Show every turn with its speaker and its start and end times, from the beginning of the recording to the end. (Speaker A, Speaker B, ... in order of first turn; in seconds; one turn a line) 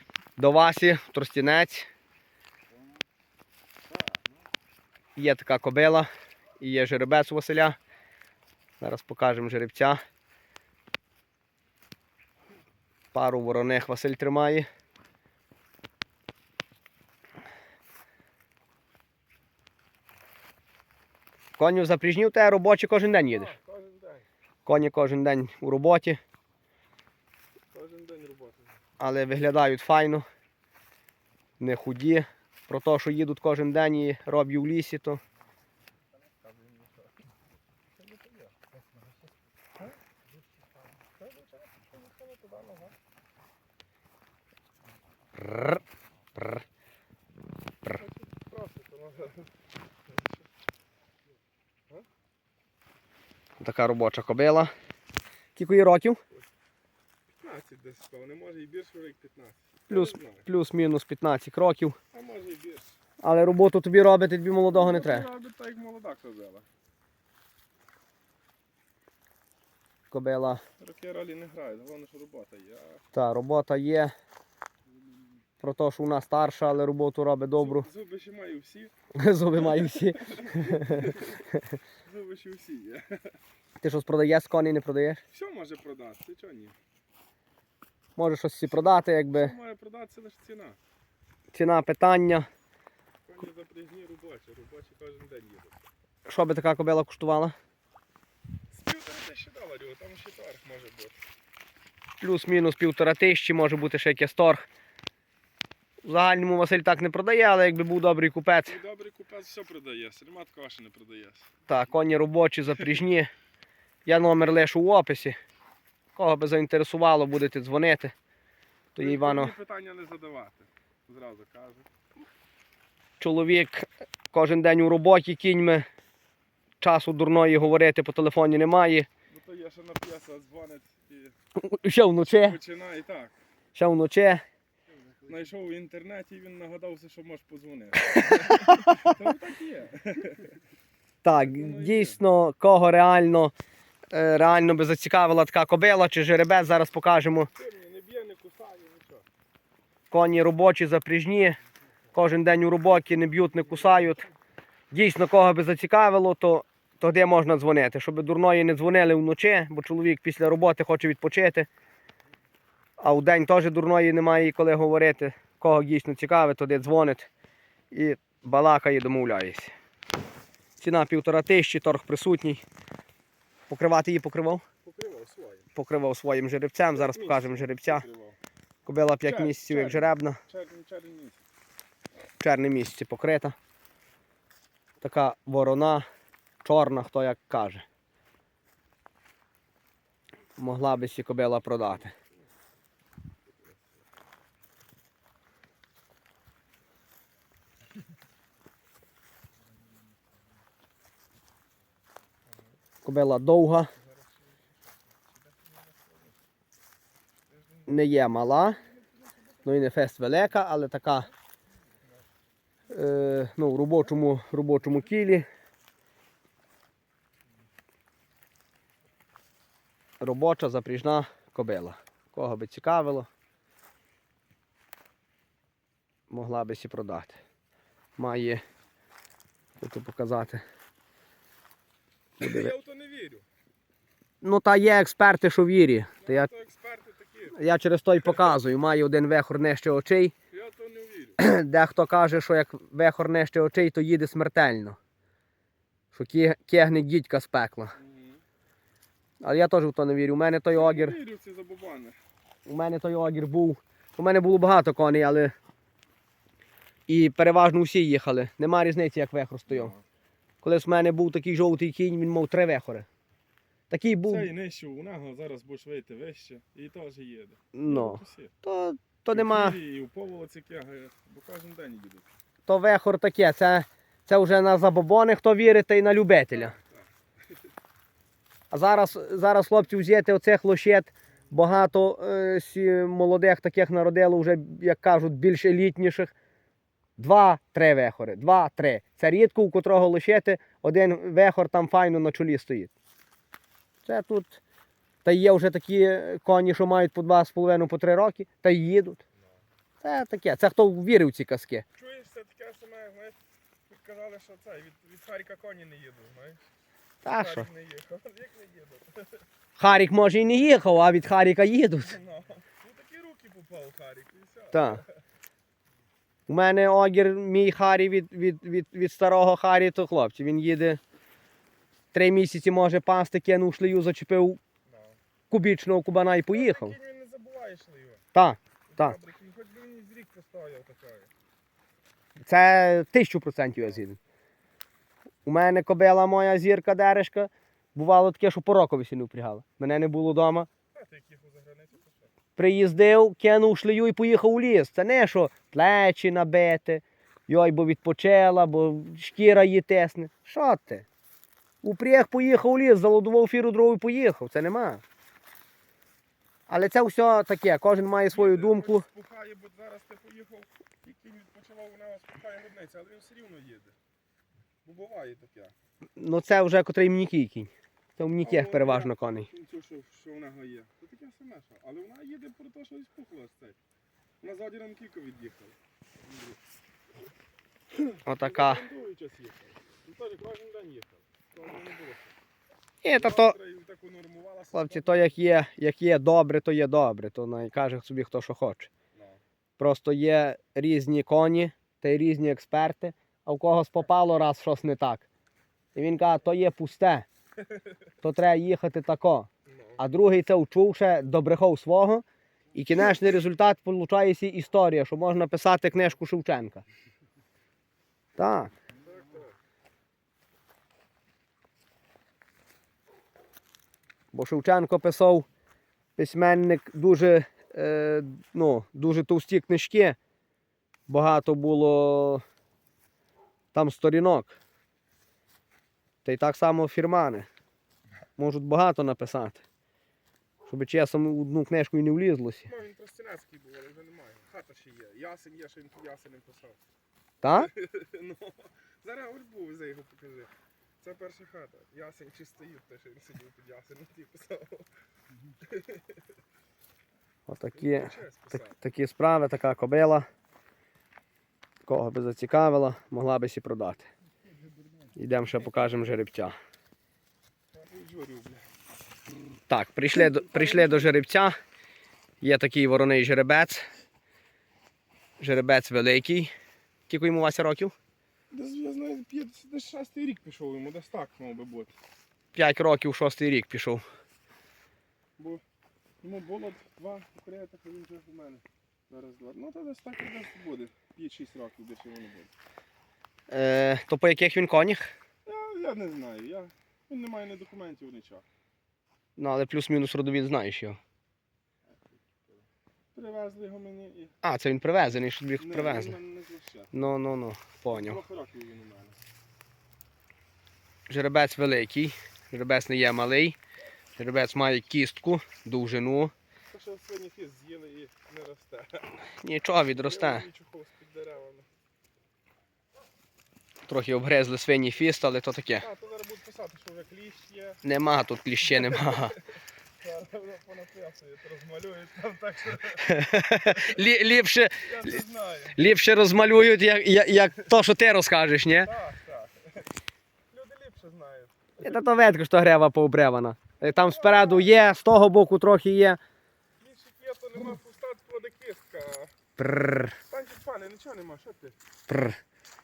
Speaker A: 0.4-1.9
Speaker A: 5.2-6.1
Speaker A: 6.6-7.8
Speaker A: 8.8-10.0
Speaker A: 13.1-14.7
Speaker A: 21.6-23.6
Speaker B: 23.3-24.2
Speaker A: 24.6-26.2
Speaker B: 27.7-28.8
Speaker A: 29.0-30.2
Speaker A: 31.6-35.2
Speaker B: 36.1-37.2
Speaker B: 38.0-38.5
Speaker B: 41.2-43.0
Speaker A: 45.4-45.7
Speaker B: 47.9-49.5
Speaker B: 50.0-50.5
Speaker A: 53.6-54.7
Speaker A: 55.5-56.2
Speaker B: 57.3-60.5
Speaker A: 59.9-62.0
Speaker B: 62.1-63.0
Speaker A: 63.2-65.2
Speaker B: 64.7-66.7
Speaker A: 70.1-70.6
Speaker B: 70.8-73.0
Speaker A: 73.1-74.1
Speaker A: 75.6-77.9
Speaker B: 77.5-78.9
Speaker A: 79.1-81.7
Speaker B: 79.5-81.5
Speaker B: 82.0-83.3
Speaker A: 83.8-85.2
Speaker B: 85.3-86.7
Speaker A: 88.2-89.5
Speaker B: 89.3-90.8
Speaker A: 91.5-92.5
Speaker B: 93.2-95.8
Speaker A: 96.2-97.5
Speaker B: 98.7-101.2
Speaker A: 102.2-104.7
Speaker A: 106.0-108.8
Speaker B: 108.7-111.5
Speaker A: 111.7-113.3
Speaker A: 114.0-115.3
Speaker A: 116.2-118.1
Speaker A: 118.9-119.5
Speaker B: 119.0-121.9
Speaker A: 123.2-125.8
Speaker A: 126.8-129.1
Speaker B: 129.3-131.3
Speaker A: 131.6-132.6
Speaker B: 132.3-133.3
Speaker A: 133.7-134.4
Speaker B: 135.2-140.5
Speaker A: 138.2-139.1
Speaker A: 141.2-143.5
Speaker B: 141.4-142.2
Speaker A: 144.1-147.5
Speaker B: 147.5-149.2
Speaker A: 150.1-151.6
Speaker A: 152.1-154.2
Speaker A: 154.9-161.7
Speaker A: 163.0-167.3
Speaker A: 167.9-169.7
Speaker A: 170.8-172.6
Speaker A: 173.7-174.6
Speaker B: 174.8-175.7
Speaker A: 175.7-178.0
Speaker B: 176.9-178.4
Speaker A: 178.8-180.4
Speaker B: 179.2-181.4
Speaker A: 182.4-183.6
Speaker A: 185.0-186.1
Speaker A: 186.6-187.8
Speaker A: 190.6-192.1
Speaker B: 202.5-202.8
Speaker A: 203.0-203.9
Speaker B: 203.9-206.3
Speaker B: 207.5-209.8
Speaker A: 207.9-208.8
Speaker A: 209.6-211.3
Speaker A: 212.9-215.4
Speaker A: 220.2-223.3
Speaker A: 226.3-227.4
Speaker A: 228.2-228.6
Speaker A: 229.8-230.6
Speaker B: 232.4-233.4
Speaker A: 232.4-232.7
Speaker A: 234.4-236.5
Speaker B: 236.2-237.6
Speaker A: 237.5-240.3
Speaker B: 238.2-238.5
Speaker B: 240.5-241.4
Speaker A: 241.4-245.0
Speaker A: 246.1-247.9
Speaker B: 247.9-248.4
Speaker A: 249.4-251.2
Speaker B: 250.7-252.2
Speaker A: 252.7-255.5
Speaker A: 257.1-259.9
Speaker B: 259.7-260.0
Speaker A: 260.6-263.1
Speaker A: 263.9-264.5
Speaker B: 264.2-268.5
Speaker A: 267.7-269.8
Speaker B: 269.3-272.3
Speaker A: 272.6-276.7
Speaker B: 276.5-277.1
Speaker A: 278.7-286.3
Speaker A: 287.2-292.9
Speaker A: 294.0-294.6
Speaker A: 295.2-299.2
Speaker A: 300.0-301.8
Speaker B: 302.0-306.7
Speaker A: 307.2-307.7
Speaker B: 307.2-309.4
Speaker A: 309.8-312.1
Speaker B: 312.0-315.2
Speaker A: 314.7-315.0
Speaker A: 316.5-321.0
Speaker A: 322.1-324.6
Speaker B: 324.9-325.2
Speaker A: 325.5-326.9
Speaker B: 326.5-328.2
Speaker A: 328.3-329.2
Speaker B: 328.9-331.3
Speaker A: 332.4-334.2
Speaker A: 335.4-340.7
Speaker B: 340.9-342.3
Speaker A: 342.6-351.1
Speaker A: 351.8-355.0
Speaker A: 356.7-359.0
Speaker B: 358.3-363.9
Speaker B: 364.8-365.7
Speaker A: 366.2-369.5
Speaker B: 368.4-373.8
Speaker B: 374.4-376.6
Speaker B: 377.9-382.3
Speaker A: 378.2-378.8
Speaker A: 383.0-383.6
Speaker B: 383.1-385.4
Speaker A: 384.7-388.9
Speaker B: 389.1-389.4
Speaker A: 389.8-395.2
Speaker A: 395.9-397.2
Speaker A: 398.2-406.8
Speaker B: 399.6-400.0
Speaker A: 408.4-408.7
Speaker B: 409.0-409.5
Speaker A: 414.3-415.4
Speaker A: 416.2-420.2
Speaker A: 421.1-422.4
Speaker A: 423.7-424.6
Speaker A: 426.2-427.5
Speaker A: 428.4-429.6
Speaker A: 430.6-432.7
Speaker B: 432.7-436.8
Speaker A: 437.4-437.7
Speaker B: 437.5-444.9
Speaker B: 445.7-446.0
Speaker A: 447.5-448.1
Speaker B: 447.7-448.8
Speaker A: 448.7-450.2
Speaker A: 451.9-454.1
Speaker A: 455.1-456.6
Speaker B: 457.7-458.7
Speaker A: 459.7-461.6
Speaker B: 460.1-461.2
Speaker A: 462.4-463.9
Speaker A: 465.4-466.5
Speaker A: 467.1-467.9
Speaker B: 468.5-471.9
Speaker A: 472.5-474.0
Speaker B: 475.4-475.6
Speaker B: 476.2-482.5
Speaker A: 483.5-485.1
Speaker B: 485.4-488.4
Speaker A: 489.4-491.0
Speaker B: 493.1-494.4
Speaker A: 494.4-496.1
Speaker B: 495.6-496.9
Speaker A: 496.9-498.2
Speaker B: 497.9-499.2
Speaker A: 501.1-503.6
Speaker A: 504.2-506.3
Speaker B: 506.7-509.2
Speaker A: 509.4-510.4
Speaker B: 509.9-511.7
Speaker A: 513.9-515.9
Speaker B: 515.8-517.8
Speaker A: 517.8-519.3
Speaker B: 518.7-519.4
Speaker B: 520.0-524.0
Speaker A: 523.1-524.9
Speaker B: 524.8-525.9
Speaker A: 525.7-528.9
Speaker B: 528.8-529.9
Speaker B: 530.5-531.9
Speaker A: 531.8-536.2
Speaker B: 533.8-534.8
Speaker B: 536.8-539.3
Speaker A: 539.6-540.1
Speaker B: 540.3-541.8
Speaker A: 542.1-542.4